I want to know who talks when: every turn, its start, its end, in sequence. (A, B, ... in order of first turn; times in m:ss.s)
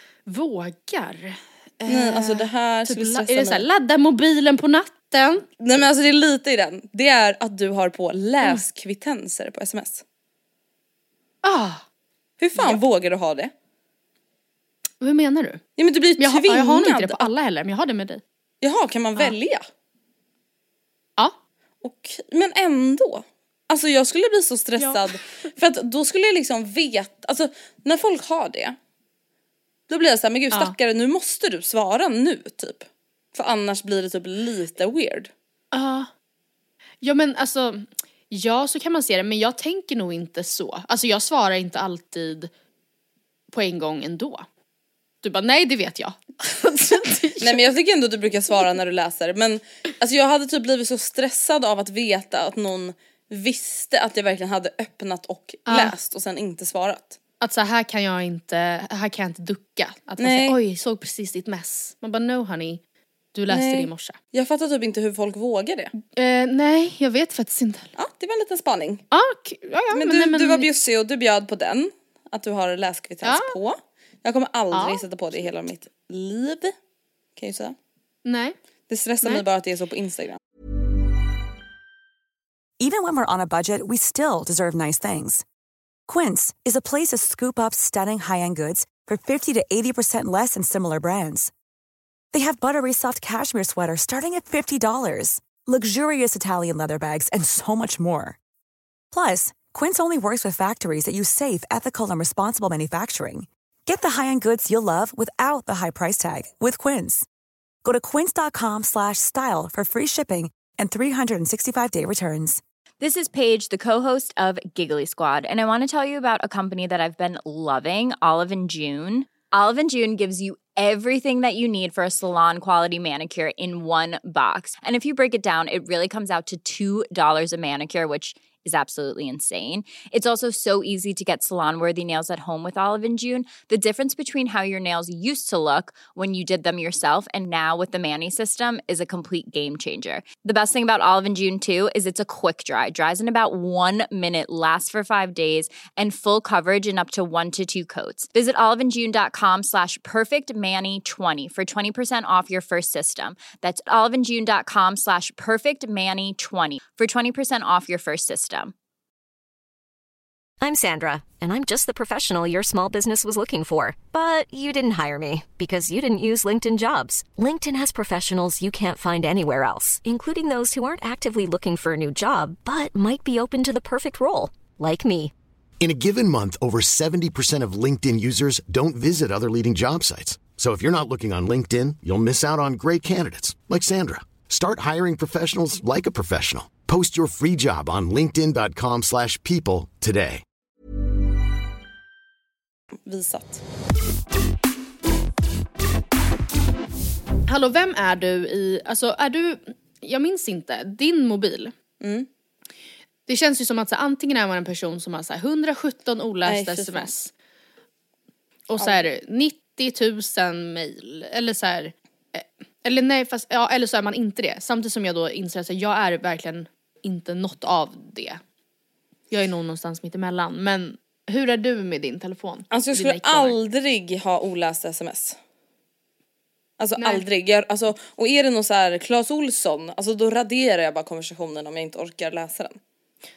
0:00.3-0:05.5 A
0:01.9-0:03.7 B
0:05.6-0:10.0 B
0:11.4-0:11.8 A
0:12.4-0:13.5 B
0:12.6-0:12.8 A
0:15.0-0:15.6 A
0:15.8-0:17.3 B
0:16.2-0:18.2 A
0:18.6-0:19.7 B
0:21.8-0:28.8 B
0:24.8-0:25.5 A
0:29.9-0:35.3 B
0:30.5-0:30.8 A
0:35.7-0:36.1 A
0:37.0-0:42.5 A
0:43.5-0:44.5 A
0:45.2-0:47.6 A
0:47.4-0:57.2 B
0:55.7-0:56.0 A
0:57.4-1:02.8 A
1:00.2-1:00.6 B
1:03.3-1:04.2 A
1:03.5-1:05.9 B
1:06.0-1:08.0 A
1:08.0-1:09.0 B
1:09.1-1:10.7 A
1:09.9-1:16.8 B
1:13.2-1:13.6 A
1:14.7-1:15.0 A
1:17.4-1:17.8 B
1:18.2-1:18.6 A
1:18.9-1:20.4 B
1:22.8-1:25.4 C
1:26.1-1:31.5 C
1:32.3-1:38.4 C
1:39.1-1:47.3 C
1:47.8-1:52.6 C
1:53.0-2:38.7 D
2:40.6-2:55.3 E
2:55.8-3:10.4 F
3:13.0-3:13.6 B
3:17.5-3:21.7 A
3:22.0-3:22.3 B
3:23.3-3:27.3 A
3:26.4-3:27.1 B
3:28.7-3:38.4 A
3:28.8-3:29.0 B
3:39.3-3:43.6 A
3:42.7-3:45.4 B
3:46.8-3:52.8 B
3:47.0-3:47.2 A